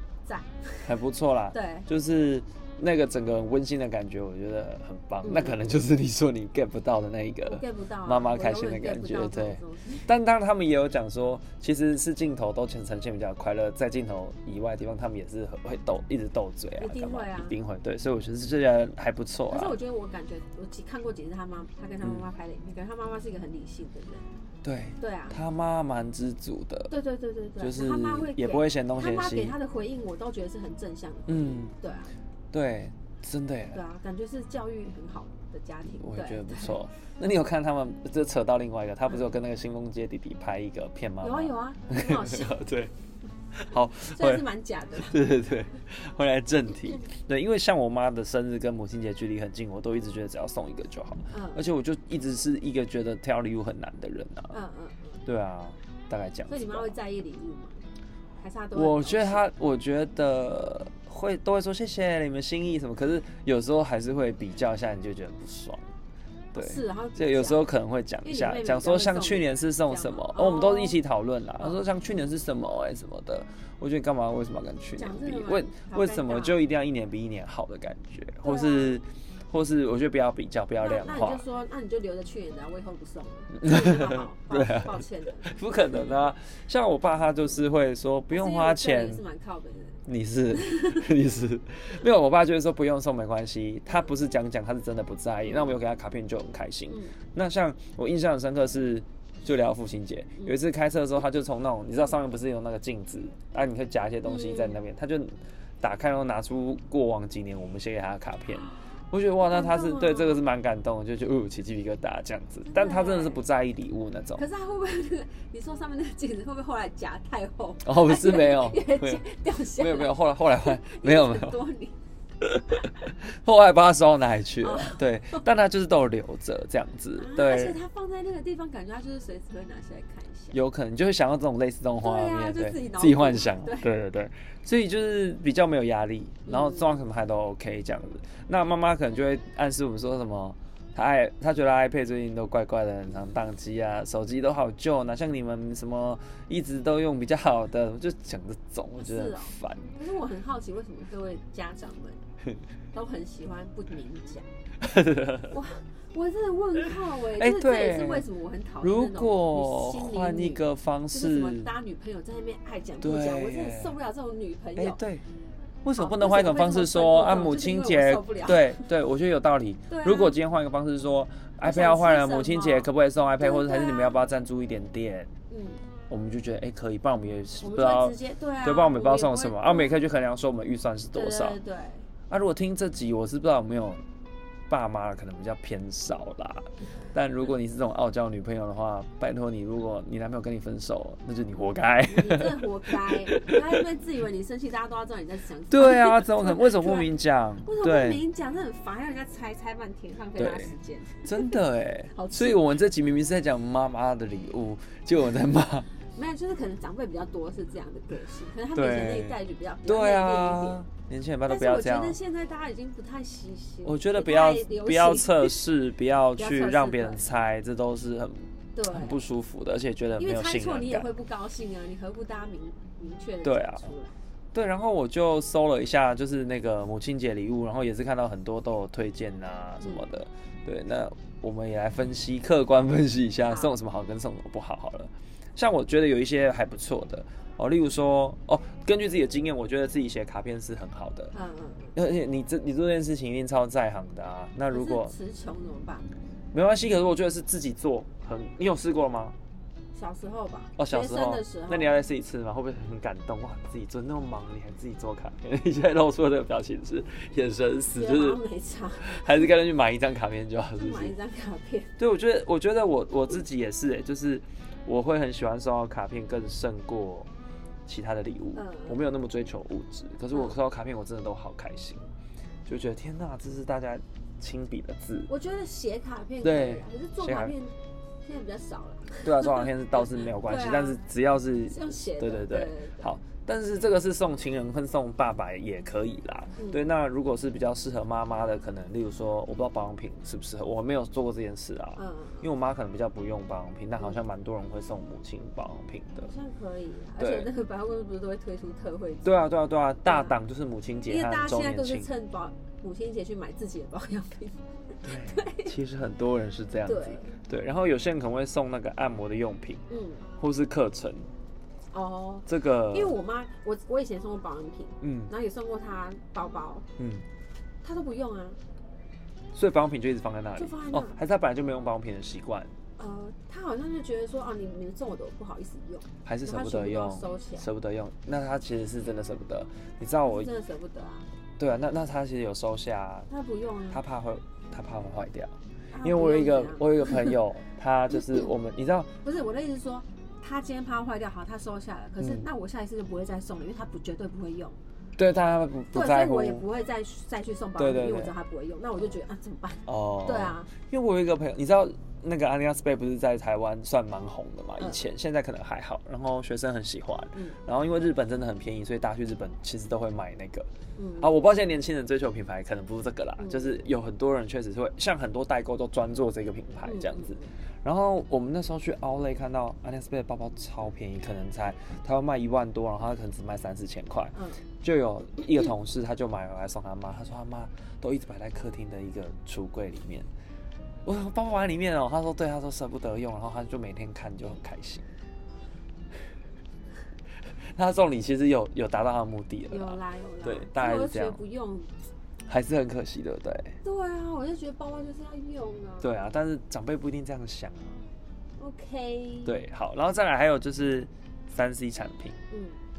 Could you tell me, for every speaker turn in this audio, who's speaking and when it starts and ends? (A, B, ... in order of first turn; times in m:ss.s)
0:00.2-0:00.9 A
0:00.8-0:19.8 B
0:01.5-0:01.9 A
0:05.2-0:05.6 A
0:07.4-0:10.1 A
0:16.8-0:17.6 A
0:19.5-0:24.4 A
0:24.6-0:26.9 B
0:25.0-0:25.4 A
0:26.9-0:32.1 A
0:27.6-0:29.6 B
0:31.3-0:31.7 B
0:32.5-0:33.8 B
0:33.7-0:36.8 A
0:36.0-0:42.9 B
0:41.2-0:42.6 A
0:43.5-0:54.6 B
0:44.1-0:45.2 A
0:51.3-0:51.7 A
0:54.5-0:55.2 A
0:55.2-0:56.9 B
0:56.5-0:57.9 A
0:58.4-0:59.4 A
0:58.8-1:05.9 B
1:06.5-1:07.7 A
1:06.5-1:21.4 B
1:08.2-1:11.0 A
1:15.0-1:16.6 A
1:18.4-1:19.0 A
1:20.8-1:26.1 A
1:23.6-1:29.2 B
1:28.3-1:31.0 A
1:30.1-1:54.4 B
1:35.5-1:35.7 A
1:44.2-1:44.8 A
1:49.5-1:50.4 A
1:52.7-1:53.4 A
1:54.4-2:02.0 A
1:57.8-2:01.6 B
2:02.4-2:07.8 B
2:04.6-2:05.4 A
2:07.2-2:10.6 A
2:10.5-2:29.9 B
2:12.0-2:13.9 A
2:16.5-2:17.0 A
2:29.0-2:32.2 A
2:32.9-2:34.5 A
2:34.8-2:35.5 B
2:35.5-2:45.0 A
2:37.3-2:38.2 B
2:38.8-2:41.7 B
2:43.0-2:43.9 B
2:44.8-2:45.2 B
2:45.8-2:55.3 B
2:46.0-2:48.9 A
2:49.9-2:50.4 A
2:51.6-2:54.2 A
2:55.5-2:55.8 A
2:56.1-3:01.6 B
2:57.6-3:00.0 A
3:01.2-3:02.1 A
3:02.3-3:04.0 B
3:04.7-3:13.6 B
3:12.1-3:17.1 A
3:15.7-3:18.2 B
3:17.6-3:21.6 A
3:20.4-3:20.7 B
3:21.2-3:25.9 B
3:22.1-3:22.6 A
3:26.1-3:30.8 A
3:28.7-3:32.2 B
3:31.5-3:35.6 A
3:33.8-3:41.1 B
3:36.4-3:37.2 A
3:38.8-3:39.2 A
3:40.2-3:44.2 A
3:43.4-3:43.9 B
3:44.5-4:01.3 B
3:49.8-3:50.1 A
3:53.5-3:53.7 A
4:01.3-4:02.0 A
4:02.0-4:05.1 B
4:04.7-4:06.1 A
4:06.5-4:09.4 B
4:09.9-4:12.0 A
4:10.8-4:18.4 B
4:18.0-4:19.5 A
4:19.0-4:21.1 B
4:20.8-4:22.0 A
4:22.0-4:27.3 B
4:27.9-4:32.1 B
4:28.6-4:29.0 A
4:32.7-4:35.3 B
4:35.3-4:41.0 A
4:36.4-4:37.5 B
4:39.2-4:56.3 B
4:41.7-4:43.1 A
4:52.0-4:52.5 A
4:56.2-4:59.4 A
4:57.2-4:57.5 B
4:59.2-5:02.1 B
5:00.1-5:00.4 A
5:01.1-5:05.7 A
5:05.0-5:09.8 B
5:06.9-5:07.4 A
5:09.9-5:10.3 A
5:10.4-5:11.3 B
5:11.9-5:16.9 A
5:12.5-5:13.2 B
5:15.0-5:15.3 B
5:17.0-5:17.2 B
5:17.8-5:18.6 A
5:19.5-5:22.7 B
5:20.6-5:21.2 A
5:23.0-5:27.7 A
5:26.2-5:30.5 B
5:30.2-5:31.3 A
5:31.6-5:33.3 B
5:33.3-5:34.0 A
5:33.9-5:39.1 B
5:35.9-5:37.4 A
5:39.2-5:44.8 A
5:42.2-5:42.4 B
5:45.2-5:46.6 B
5:45.9-5:50.7 A
5:47.8-5:48.3 B
5:49.9-6:00.7 B
6:01.0-6:01.3 A
6:01.2-6:20.3 B
6:03.4-6:03.7 A
6:06.8-6:07.5 A
6:14.3-6:14.6 A
6:21.0-6:25.1 B
6:27.6-6:31.4 B
6:29.7-6:31.9 A
6:32.5-6:33.8 B
6:33.8-6:36.1 A
6:36.0-6:38.1 B
6:38.6-6:39.6 A
6:39.4-6:42.4 B
6:42.5-6:42.8 A